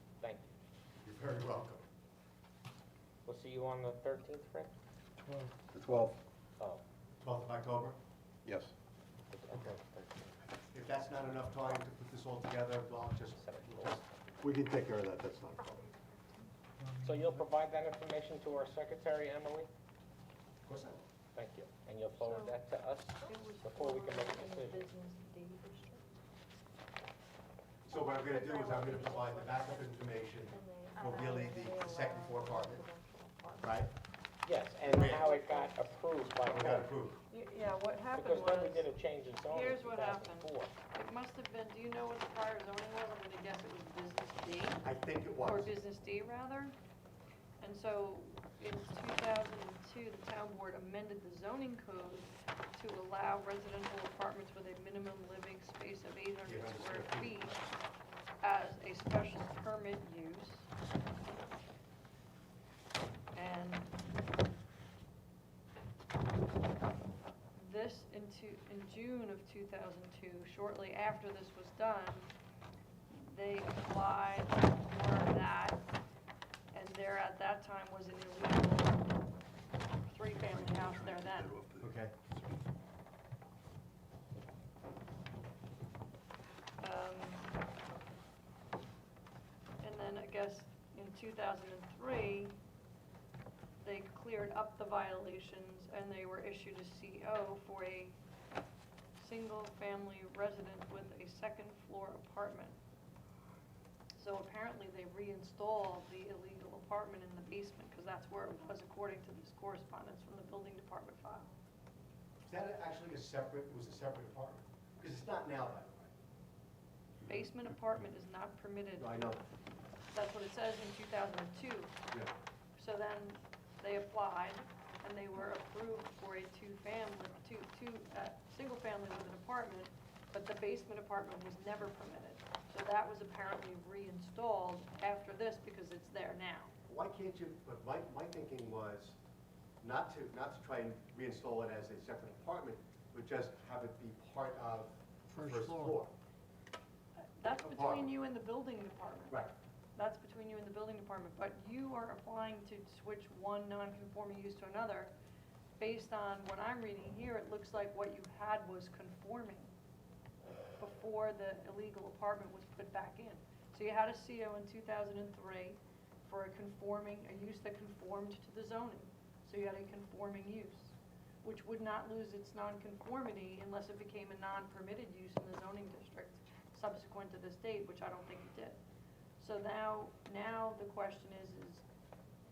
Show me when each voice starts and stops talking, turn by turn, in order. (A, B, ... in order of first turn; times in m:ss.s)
0:00.2-0:00.6 A
0:01.0-0:01.8 B
0:03.2-0:04.7 A
0:05.2-0:06.2 C
0:06.6-0:06.8 A
0:07.2-0:08.0 B
0:08.4-0:08.7 C
0:09.3-0:10.4 A
0:10.7-0:15.6 B
0:13.3-0:14.0 A
0:14.5-0:14.9 C
0:15.6-0:16.5 D
0:16.8-0:17.4 C
0:17.0-0:19.7 A
0:20.6-0:21.0 B
0:21.3-0:24.8 A
0:22.2-0:22.6 D
0:23.2-0:26.0 D
0:27.9-0:32.8 B
0:27.9-0:30.0 D
0:30.5-0:33.8 D
0:33.6-0:33.9 B
0:34.4-0:36.9 A
0:34.8-0:35.5 B
0:36.4-0:37.2 B
0:37.3-0:38.9 D
0:38.1-0:40.7 A
0:39.5-0:44.9 D
0:44.8-0:45.7 B
0:45.4-0:46.7 D
0:47.6-0:57.6 D
0:56.4-0:57.6 B
0:58.4-1:00.7 D
1:03.3-1:04.0 D
1:07.5-1:12.3 D
1:13.1-1:15.9 D
1:16.7-1:19.2 D
1:20.0-1:21.6 D
1:20.4-1:22.0 C
1:21.8-1:22.1 B
1:26.8-1:27.6 D
1:29.8-1:32.6 D
1:33.8-1:38.2 D
1:39.2-1:42.8 D
1:44.2-1:51.5 D
1:52.5-1:56.1 B
1:57.2-1:59.4 D
1:59.0-1:59.4 B
2:00.1-2:02.0 D
2:02.8-2:16.7 D
2:16.9-2:19.2 B
2:19.8-2:26.1 B
2:25.3-2:26.0 C
2:27.4-2:29.4 D
2:27.6-2:28.1 B
2:30.0-2:35.1 D
2:35.8-2:39.7 D
2:40.8-2:58.8 D
2:59.4-3:01.8 D